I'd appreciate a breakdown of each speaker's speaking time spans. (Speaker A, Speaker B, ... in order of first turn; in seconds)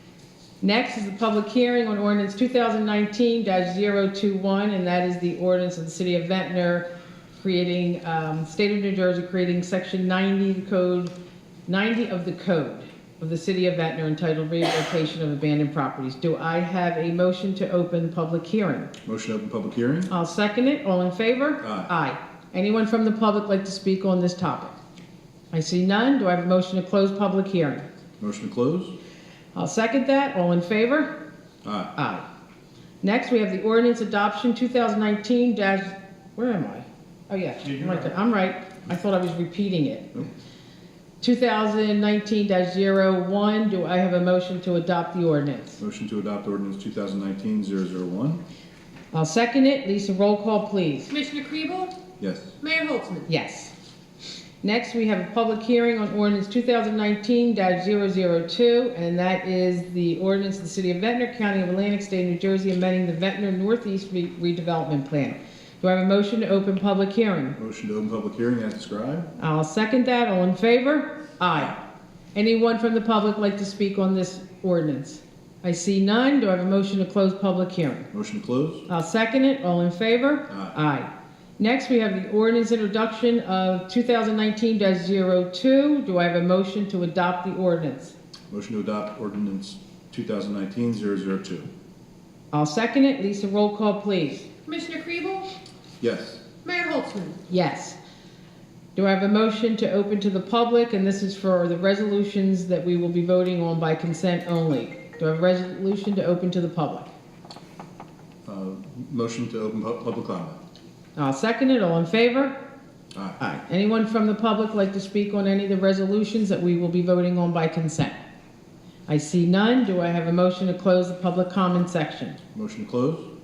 Speaker A: 0.6-11.1, 11.7-18.9, 20.1-24.7, 25.5-27.9, 29.5-31.1, 31.9-32.2, 33.0-40.2, 41.2-45.8, 49.1-51.1, 53.3-53.7, 54.6-67.6, 69.4-71.8, 72.3-78.1, 78.9-88.1, 92.5-94.5, 97.5-98.0, 99.0-107.1, 111.2-112.6, 113.4-118.2, 119.1-122.4
Speaker B: 19.0-20.1, 21.6-21.9, 28.2-28.9, 31.6-31.9, 37.6-38.0, 45.8-48.4, 52.2-52.5, 67.6-69.3, 78.1-78.9, 80.5-80.7, 88.5-91.7, 96.0-96.4, 108.5-110.6, 113.1-113.4, 122.5-123.3
Speaker C: 51.1-52.0, 52.6-53.3, 94.7-95.5, 96.6-97.4